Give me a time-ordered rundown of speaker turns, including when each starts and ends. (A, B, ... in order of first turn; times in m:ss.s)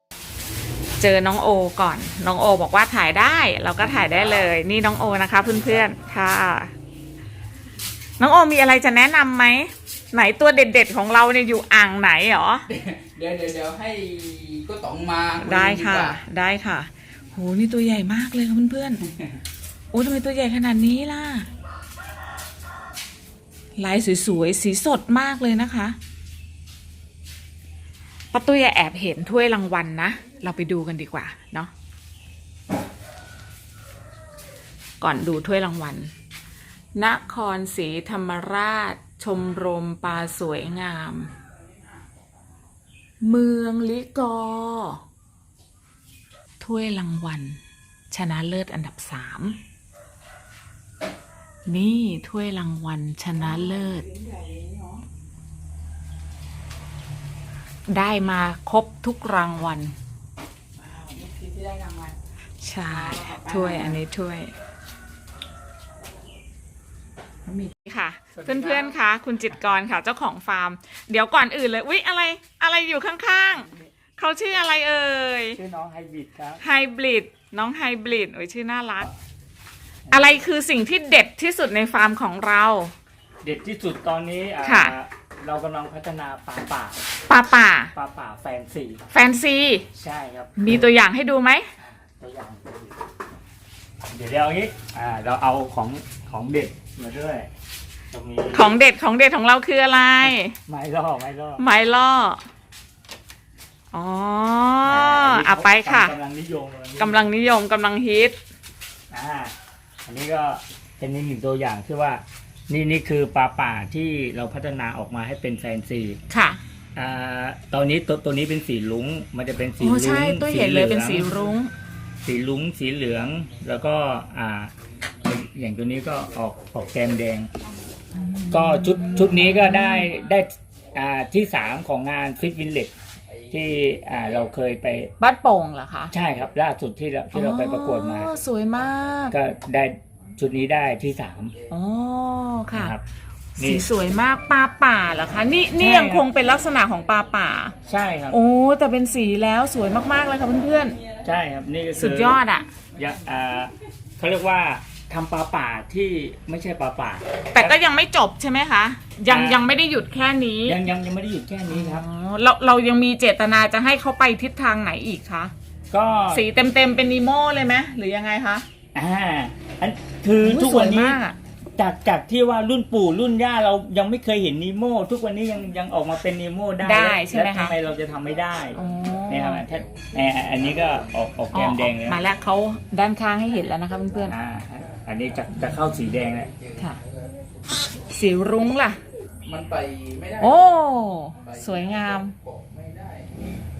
0:01.0-0:06.7 A
0:03.8-0:04.4 B
0:05.5-0:05.9 B
0:08.2-0:12.7 A
0:12.7-0:16.2 C
0:15.4-0:19.0 A
0:19.9-0:21.5 A
0:23.8-0:26.0 A
0:28.3-0:31.7 A
0:35.0-0:36.1 A
0:37.0-0:41.3 A
0:43.2-0:45.0 A
0:46.6-0:47.6 A
0:48.1-0:49.6 A
0:51.7-0:54.1 A
0:54.1-0:55.0 C
0:57.9-1:00.0 A
1:00.9-1:02.2 C
1:02.6-1:04.5 A
1:02.9-1:04.0 B
1:07.5-1:15.6 A
1:08.4-1:09.0 B
1:15.6-1:16.6 B
1:16.6-1:19.1 A
1:20.1-1:20.4 B
1:20.1-1:22.9 A
1:23.4-1:27.0 B
1:24.6-1:25.0 A
1:27.3-1:27.9 A
1:27.9-1:29.0 B
1:29.1-1:29.8 A
1:29.9-1:30.9 B
1:30.6-1:31.7 A
1:31.8-1:33.0 B
1:34.1-1:37.5 B
1:38.1-1:38.7 B
1:38.5-1:40.6 A
1:40.2-1:41.6 B
1:41.6-1:42.4 A
1:43.9-1:46.2 A
1:44.8-1:47.2 B
1:47.0-1:48.4 A
1:49.1-1:49.5 B
1:50.0-1:56.2 B
1:56.3-1:56.6 A
1:57.0-2:01.4 B
1:59.8-2:01.7 A
2:02.2-2:04.7 B
2:05.2-2:07.5 B
2:08.1-2:10.1 A
2:08.5-2:12.9 B
2:13.5-2:15.1 B
2:15.2-2:16.1 A
2:16.1-2:18.3 B
2:17.3-2:19.4 A
2:19.3-2:21.6 B
2:21.7-2:23.0 A
2:22.7-2:23.0 B
2:23.6-2:23.9 B
2:23.6-2:27.8 A
2:25.8-2:26.3 B
2:27.9-2:28.4 B
2:28.3-2:31.0 A
2:31.2-2:32.4 B
2:32.0-2:32.7 A
2:33.0-2:37.8 B
2:37.5-2:40.8 A
2:39.3-2:39.7 B
2:40.7-2:42.0 B
2:41.7-2:45.5 A
2:45.9-2:46.4 B
2:46.3-2:48.6 A
2:49.0-2:51.2 B
2:50.4-2:51.4 A
2:51.8-3:02.2 B
2:56.8-2:57.8 A
2:58.8-2:59.6 A
3:01.5-3:04.4 A
3:04.3-3:06.5 B
3:08.1-3:09.0 A
3:09.5-3:10.6 C
3:10.4-3:12.4 A
3:12.6-3:13.3 C